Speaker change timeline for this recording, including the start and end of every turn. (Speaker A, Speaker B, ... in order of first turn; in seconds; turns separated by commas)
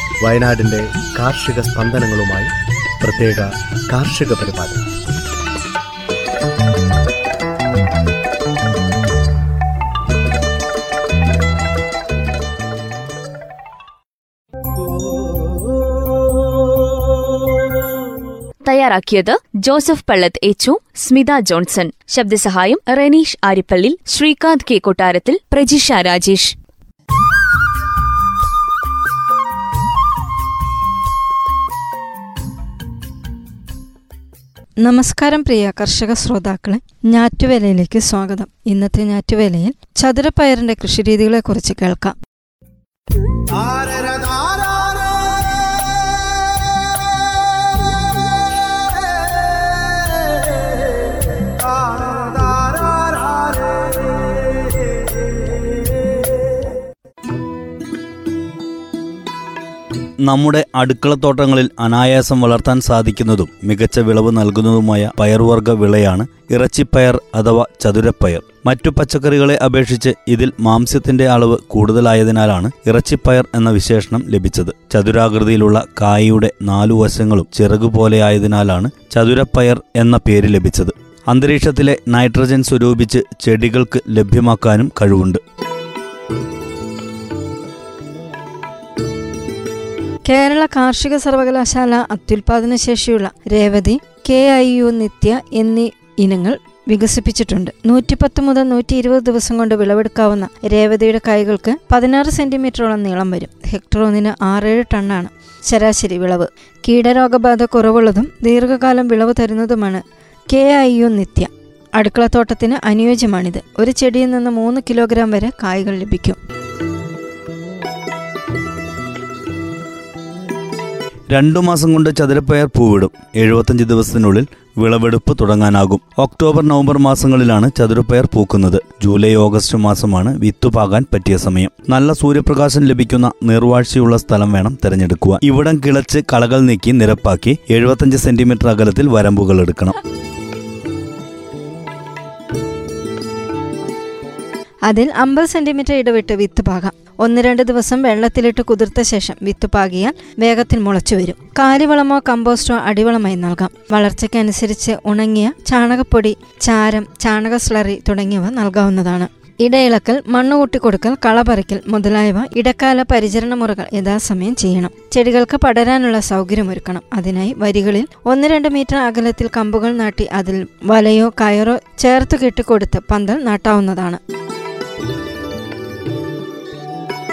Speaker A: 0.2-4.8, Speaker B: 18.6-26.5, Speaker C: 34.8-42.1, Speaker D: 60.2-85.4, Speaker C: 90.3-116.4, Speaker D: 121.3-139.9, Speaker C: 144.9-174.2